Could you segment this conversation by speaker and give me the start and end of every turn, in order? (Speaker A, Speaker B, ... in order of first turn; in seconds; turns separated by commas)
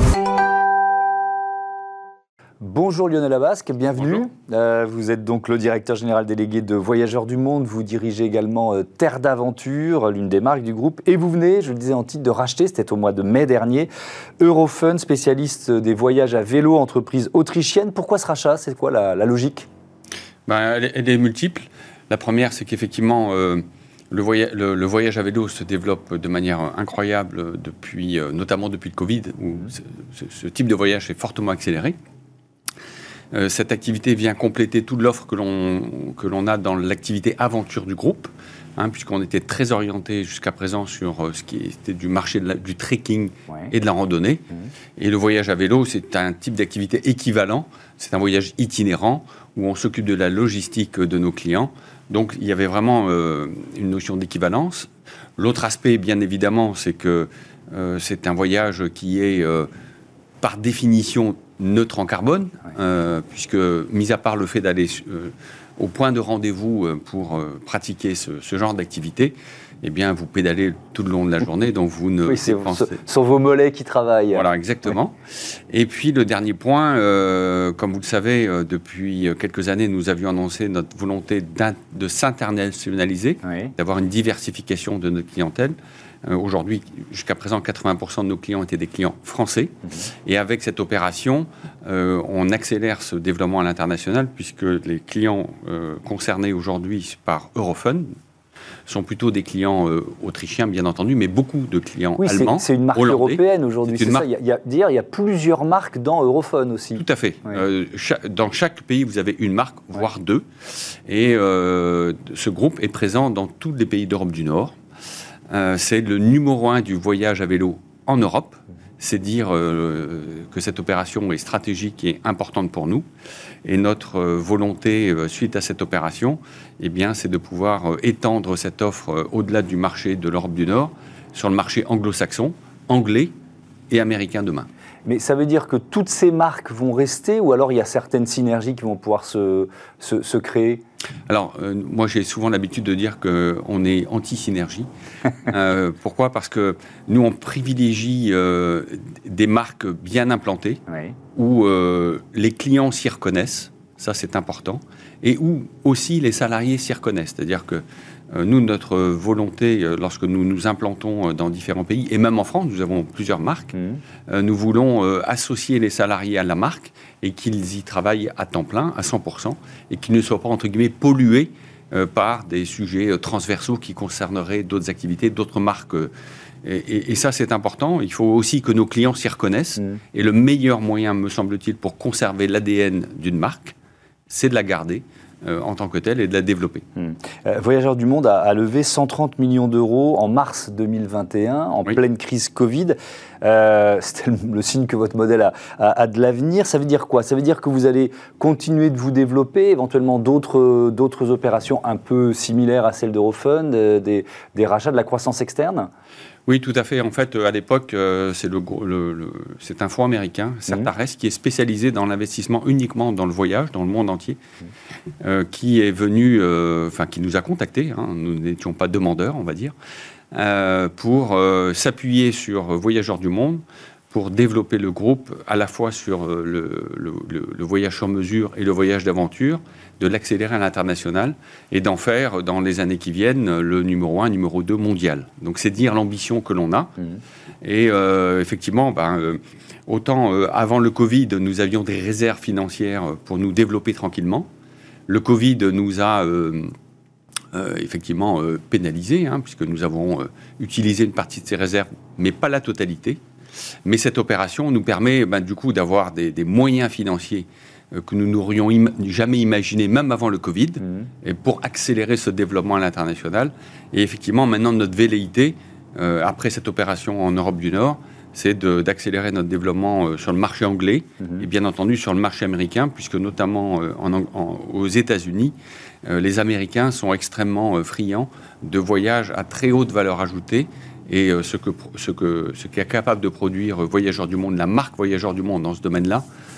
Speaker A: 2.6-13.9, Speaker A: 14.4-19.7, Speaker B: 20.5-31.9, Speaker B: 33.3-44.4, Speaker B: 45.0-59.7, Speaker B: 60.4-73.0, Speaker A: 72.2-74.5, Speaker B: 74.3-75.2, Speaker B: 75.7-89.7, Speaker A: 83.5-83.7, Speaker B: 90.3-98.1, Speaker B: 98.9-104.2, Speaker A: 102.2-107.0, Speaker B: 107.0-110.5, Speaker B: 111.1-114.8, Speaker B: 115.5-123.0, Speaker B: 123.6-133.3, Speaker B: 133.9-134.7, Speaker A: 135.1-140.8, Speaker B: 141.3-144.9, Speaker B: 145.4-150.8, Speaker A: 150.9-151.2, Speaker B: 151.3-163.8, Speaker B: 164.3-176.1, Speaker B: 176.6-183.8, Speaker B: 184.3-186.8, Speaker A: 187.0-205.9, Speaker B: 206.5-214.4, Speaker B: 215.2-219.7, Speaker B: 220.3-236.9, Speaker B: 237.6-244.5, Speaker B: 245.1-246.7, Speaker B: 247.5-253.2, Speaker B: 253.8-286.2, Speaker A: 271.2-271.5